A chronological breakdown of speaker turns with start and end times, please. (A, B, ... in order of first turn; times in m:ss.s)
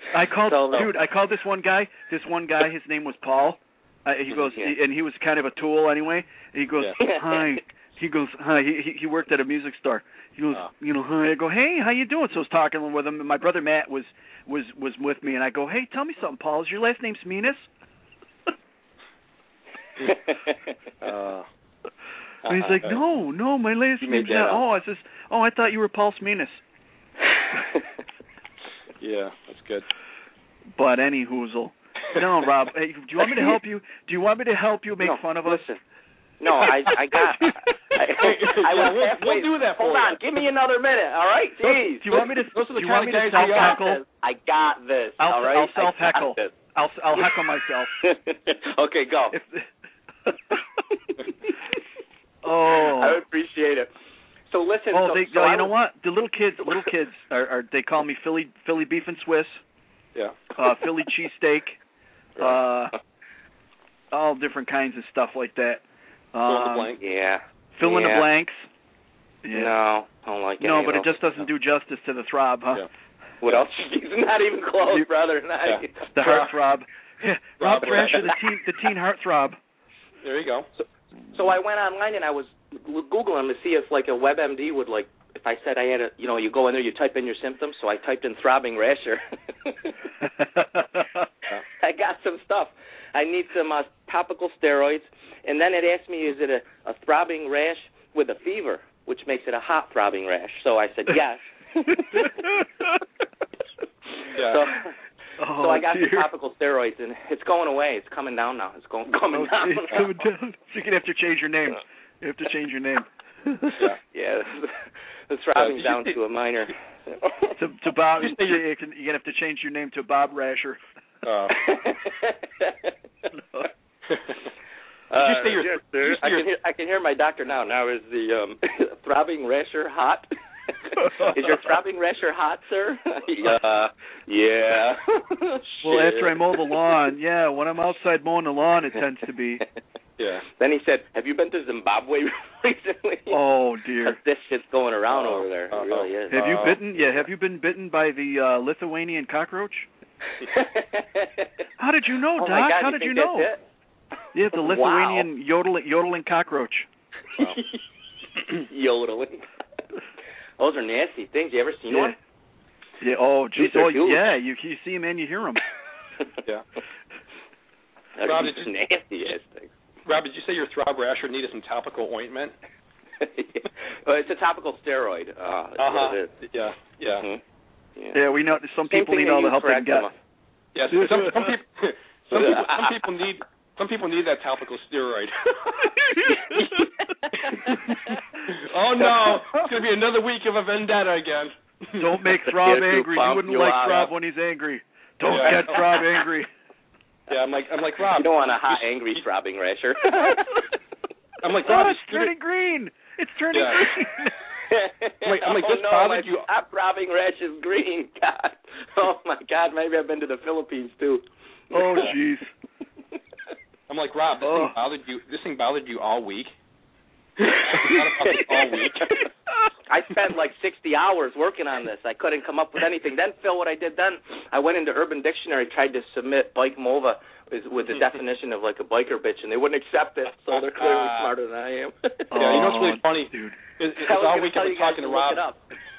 0:00.1-0:17.7 A
0:00.4-0:00.9 B
0:07.0-0:07.6 B
0:20.1-0:20.6 B
0:21.0-0:21.4 C
0:22.4-0:22.8 B
0:22.5-0:26.6 A
0:24.0-0:24.6 B
0:29.0-0:29.9 C
0:30.8-0:35.6 A
0:35.0-0:35.8 B
0:36.4-0:42.1 B
0:38.1-0:40.2 C
0:41.7-0:43.8 C
0:42.0-0:44.0 A
0:43.4-0:46.5 B
0:45.2-0:48.0 A
0:47.1-0:47.4 B
0:48.0-0:49.4 B
0:49.3-0:49.7 A
0:50.3-0:50.6 A
0:52.4-0:53.2 A
0:52.8-0:53.9 B
0:54.5-0:55.7 B
0:54.9-0:59.6 A
1:00.1-1:00.4 C
1:00.6-1:01.8 A
1:02.4-1:02.9 A
1:04.1-1:06.9 A
1:06.4-1:07.0 C
1:07.0-1:08.3 B
1:07.8-1:08.6 A
1:09.4-1:09.7 A
1:09.5-1:11.2 B
1:10.6-1:12.9 A
1:13.4-1:16.4 B
1:14.8-1:15.1 A
1:15.6-1:16.5 C
1:16.1-1:19.6 A
1:17.6-1:18.2 C
1:17.8-1:18.3 B
1:20.2-1:20.7 C
1:20.8-1:30.0 B
1:30.6-1:31.0 A
1:31.7-1:42.3 B
1:42.1-1:43.0 A
1:44.3-1:44.9 B
1:44.4-1:44.6 C
1:45.4-1:46.3 A
1:45.6-1:50.0 B
1:49.3-1:53.9 A
1:54.1-1:57.6 B
1:55.6-1:56.2 C
1:57.6-2:00.8 A
1:58.2-1:58.5 C
2:01.2-2:01.6 C
2:01.5-2:02.9 B
2:04.1-2:04.4 C
2:05.1-2:10.3 B
2:05.1-2:06.5 C
2:10.8-2:16.8 B
2:11.0-2:11.4 A
2:15.8-2:19.6 A
2:20.2-2:20.4 C
2:20.5-2:23.4 B
2:23.3-2:24.2 A
2:24.0-2:26.6 B
2:25.1-2:26.8 C
2:26.3-2:29.9 A
2:30.4-2:31.5 B
2:31.8-2:33.5 A
2:32.4-2:33.6 B
2:34.3-2:36.9 A
2:34.6-2:35.3 B
2:37.4-2:37.8 B
2:38.5-2:39.5 B
2:40.6-2:42.2 B
2:41.9-2:42.2 A
2:43.0-2:45.6 A
2:43.6-2:44.3 B
2:48.2-2:49.7 B
2:48.2-2:48.7 C
2:50.0-2:52.5 C
2:53.2-2:56.4 B
2:55.8-2:57.2 C
2:57.1-2:57.4 B
2:58.1-3:00.1 A
2:58.9-3:00.1 B
3:00.7-3:05.9 C
3:00.9-3:01.5 A
3:02.3-3:03.1 B
3:06.3-3:08.2 B
3:07.5-3:12.2 C
3:09.0-3:09.6 B
3:12.0-3:16.5 A
3:12.4-3:14.1 B
3:15.2-3:15.8 C
3:15.3-3:16.1 B
3:17.3-3:19.2 C
3:18.1-3:20.6 B
3:21.4-3:22.3 C
3:21.6-3:24.3 A
3:23.5-3:23.9 C
3:24.7-3:32.1 B
3:25.2-3:26.5 C
3:31.7-3:32.5 A
3:33.9-3:36.5 C
3:34.4-3:34.8 A
3:37.4-3:39.2 C
3:37.5-3:39.2 B
3:39.9-3:52.4 B
3:50.5-3:51.3 C
3:52.3-3:53.6 A
3:52.4-3:55.4 C
3:54.0-3:55.6 B